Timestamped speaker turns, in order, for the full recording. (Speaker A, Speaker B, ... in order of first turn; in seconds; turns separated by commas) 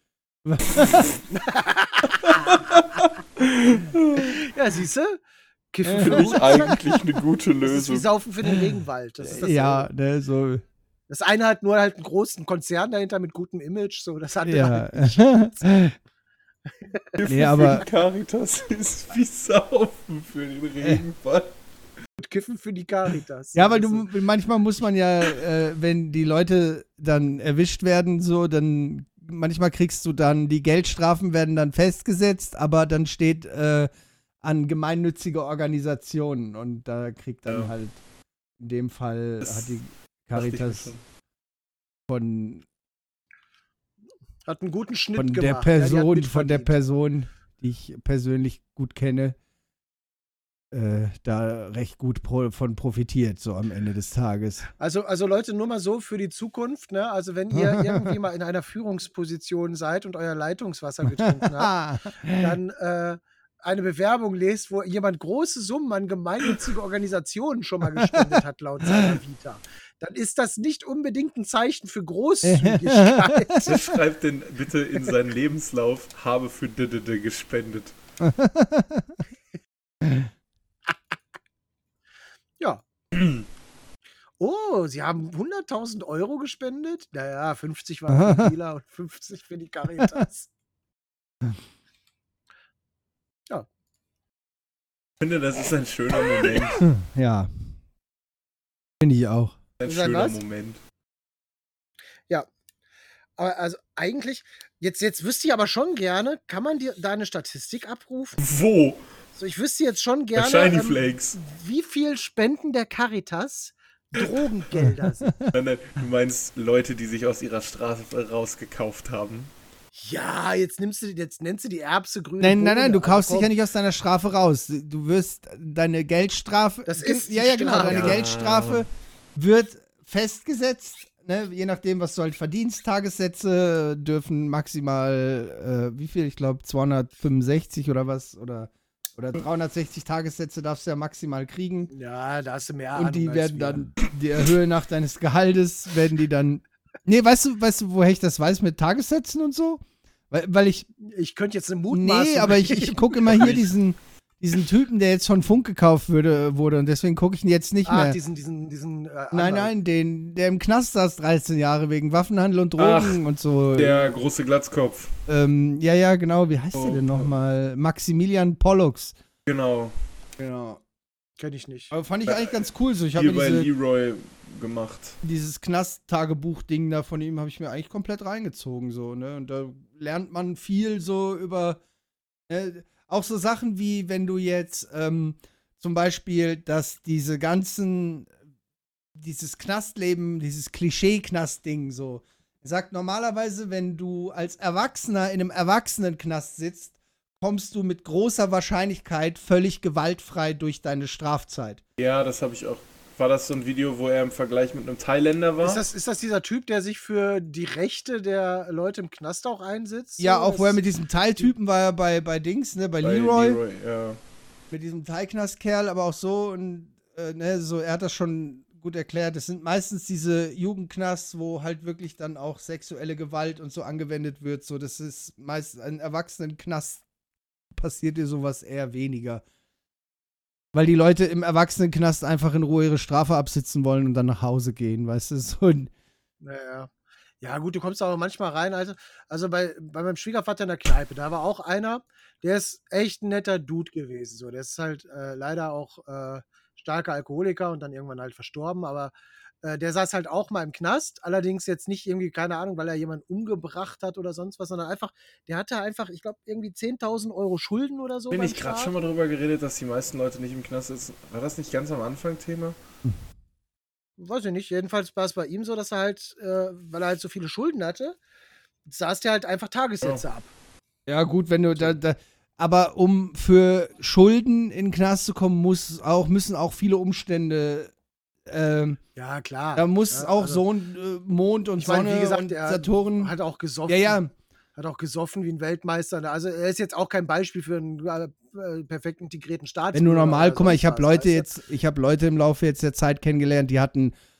Speaker A: 0.4-1.0, Speaker B: 1.3-2.6, Speaker C: 2.5-2.9, Speaker C: 3.4-4.3, Speaker B: 4.2-5.2, Speaker B: 5.7-6.8, Speaker A: 5.9-6.8, Speaker C: 6.0-8.1, Speaker B: 7.6-9.9, Speaker A: 9.3-10.6, Speaker B: 11.1-15.8, Speaker A: 14.4-15.9, Speaker C: 17.2-21.5, Speaker A: 17.3-17.8, Speaker B: 22.2-24.1, Speaker A: 23.6-33.9, Speaker A: 34.4-38.0, Speaker C: 37.5-37.7, Speaker A: 38.6-40.9, Speaker C: 39.4-39.7, Speaker C: 40.3-41.0, Speaker A: 42.1-42.6, Speaker B: 44.5-46.8, Speaker A: 45.1-49.4, Speaker A: 50.7-54.7, Speaker B: 54.8-61.7, Speaker A: 57.5-58.1, Speaker A: 61.2-62.5, Speaker B: 62.4-73.9, Speaker A: 68.0-69.1, Speaker A: 72.4-73.9, Speaker C: 73.7-78.0, Speaker A: 78.2-79.2, Speaker A: 80.0-80.3, Speaker B: 82.6-82.8, Speaker C: 83.1-83.4, Speaker B: 84.4-90.5, Speaker A: 88.1-88.5, Speaker A: 90.0-90.2, Speaker C: 95.2-96.8, Speaker A: 96.8-97.7, Speaker A: 99.0-99.5, Speaker C: 99.8-100.8, Speaker B: 99.8-100.4, Speaker B: 103.4-108.4, Speaker C: 108.4-109.0, Speaker B: 109.3-115.3, Speaker C: 110.3-111.4, Speaker C: 115.5-119.5, Speaker B: 119.9-123.5, Speaker A: 122.4-141.9, Speaker B: 126.8-128.2, Speaker C: 127.9-128.8, Speaker B: 141.9-143.9, Speaker A: 142.9-150.9, Speaker B: 151.0-153.6, Speaker A: 151.9-158.2, Speaker C: 153.3-153.6, Speaker B: 157.8-159.7, Speaker A: 159.3-164.2, Speaker C: 162.8-163.2, Speaker C: 163.7-165.1, Speaker A: 165.3-169.1, Speaker C: 166.7-167.3, Speaker C: 169.4-169.9, Speaker A: 170.4-170.8, Speaker B: 171.4-171.9, Speaker A: 171.9-173.7, Speaker C: 172.2-172.6, Speaker C: 173.1-175.2, Speaker A: 175.2-181.8, Speaker A: 182.5-188.3, Speaker A: 189.2-201.8, Speaker C: 202.0-205.8, Speaker B: 205.6-210.8, Speaker A: 210.2-213.6, Speaker C: 213.0-214.2, Speaker A: 214.7-227.0, Speaker A: 227.7-229.4, Speaker A: 230.7-235.9, Speaker B: 236.4-258.9, Speaker C: 258.3-262.8, Speaker B: 264.2-268.2, Speaker B: 268.9-270.5, Speaker A: 271.1-277.9, Speaker A: 278.4-279.0, Speaker B: 279.1-280.6, Speaker A: 279.7-283.3, Speaker B: 281.8-284.2, Speaker A: 283.9-284.3, Speaker B: 284.8-291.5, Speaker A: 289.9-294.1